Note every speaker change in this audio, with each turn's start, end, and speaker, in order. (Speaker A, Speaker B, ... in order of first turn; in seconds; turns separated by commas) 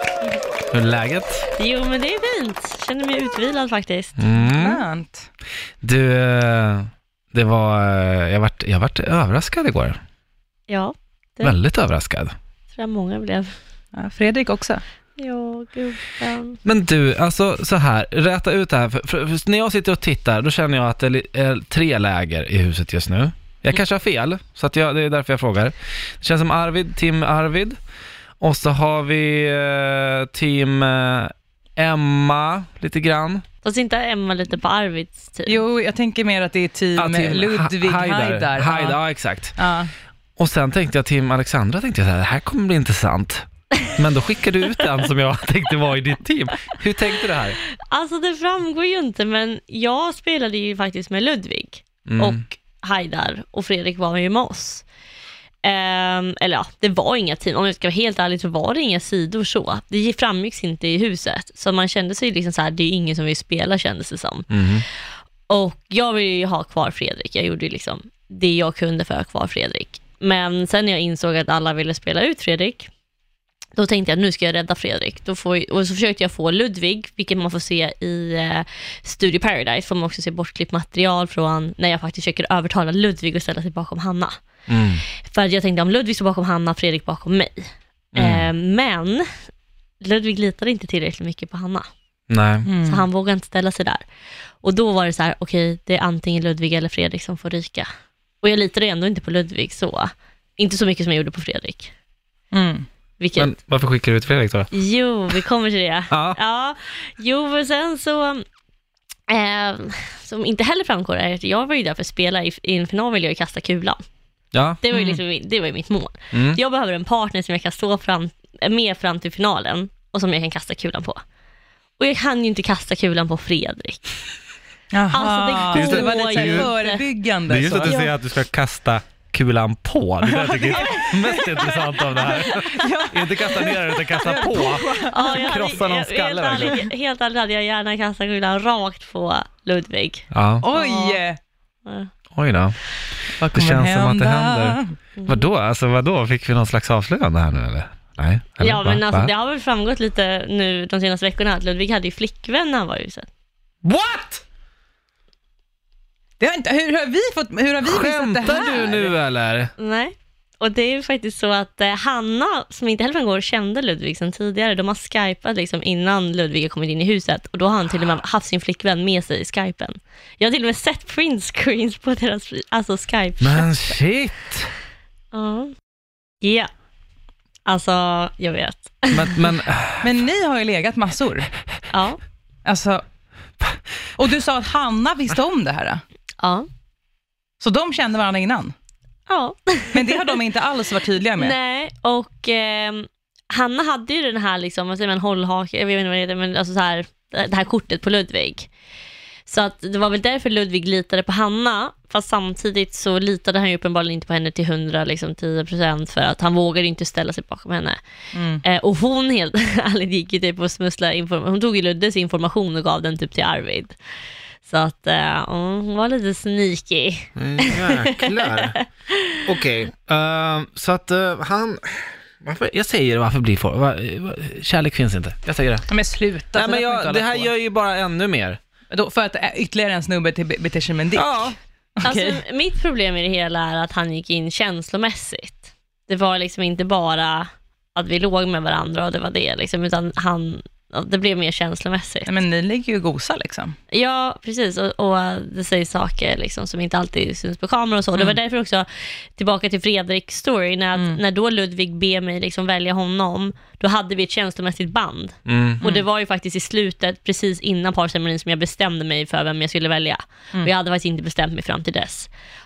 Speaker A: 0.7-1.5, Speaker B: 1.6-4.2, Speaker A: 4.2-4.8, Speaker C: 4.4-5.3, Speaker A: 5.8-10.0, Speaker B: 10.7-11.6, Speaker A: 11.4-12.3, Speaker B: 12.8-13.5, Speaker C: 13.9-14.8, Speaker B: 15.2-16.6, Speaker A: 16.6-27.8, Speaker A: 28.4-33.4, Speaker B: 33.6-35.6, Speaker C: 35.5-39.0, Speaker A: 37.0-39.6, Speaker C: 39.5-39.9, Speaker A: 40.4-47.6, Speaker B: 47.9-54.9, Speaker A: 52.1-52.4, Speaker B: 55.6-64.5, Speaker A: 64.5-64.8, Speaker B: 65.5-72.9, Speaker B: 73.8-84.3, Speaker A: 84.7-85.0, Speaker B: 85.3-89.3, Speaker A: 88.1-88.5, Speaker B: 90.0-91.8, Speaker A: 92.3-92.7, Speaker C: 92.7-93.0, Speaker B: 92.8-94.0, Speaker B: 94.6-97.9, Speaker B: 98.4-101.9, Speaker C: 102.5-102.9, Speaker B: 103.2-103.6, Speaker A: 103.4-104.7, Speaker B: 104.7-108.4, Speaker A: 106.1-106.4, Speaker B: 109.3-114.0, Speaker A: 114.5-114.8, Speaker B: 114.8-121.2, Speaker C: 114.9-115.2, Speaker A: 116.3-116.6, Speaker B: 122.0-124.0, Speaker C: 124.9-128.0, Speaker B: 125.1-127.0, Speaker A: 125.7-126.7, Speaker A: 127.5-136.8, Speaker B: 127.8-128.1, Speaker C: 130.3-135.7, Speaker B: 130.7-131.0, Speaker B: 135.1-141.2, Speaker A: 140.3-140.6, Speaker C: 140.6-141.4, Speaker A: 142.3-142.8, Speaker C: 143.4-144.9, Speaker A: 143.5-149.3, Speaker B: 145.2-145.5, Speaker B: 148.6-153.3, Speaker A: 153.8-154.4, Speaker C: 156.4-159.1, Speaker A: 157.8-159.7, Speaker B: 159.8-173.9, Speaker A: 173.4-174.7, Speaker B: 175.3-175.7, Speaker B: 176.4-176.7, Speaker B: 177.7-179.5, Speaker A: 179.1-180.1, Speaker C: 180.0-181.5, Speaker B: 181.9-182.2, Speaker C: 182.7-183.0, Speaker C: 184.2-186.0, Speaker B: 186.4-186.7, Speaker C: 187.6-188.7, Speaker B: 189.3-190.4, Speaker C: 189.9-191.6, Speaker B: 191.4-198.7, Speaker B: 199.5-208.0, Speaker C: 208.3-208.6, Speaker B: 208.6-214.0, Speaker B: 214.7-219.4, Speaker A: 217.4-218.8, Speaker A: 219.4-225.9, Speaker C: 225.9-227.5, Speaker A: 226.6-228.6, Speaker C: 228.9-232.4, Speaker B: 231.2-231.4, Speaker B: 232.0-242.3, Speaker C: 242.3-243.8, Speaker B: 243.9-262.3, Speaker C: 250.9-251.2, Speaker A: 255.5-255.8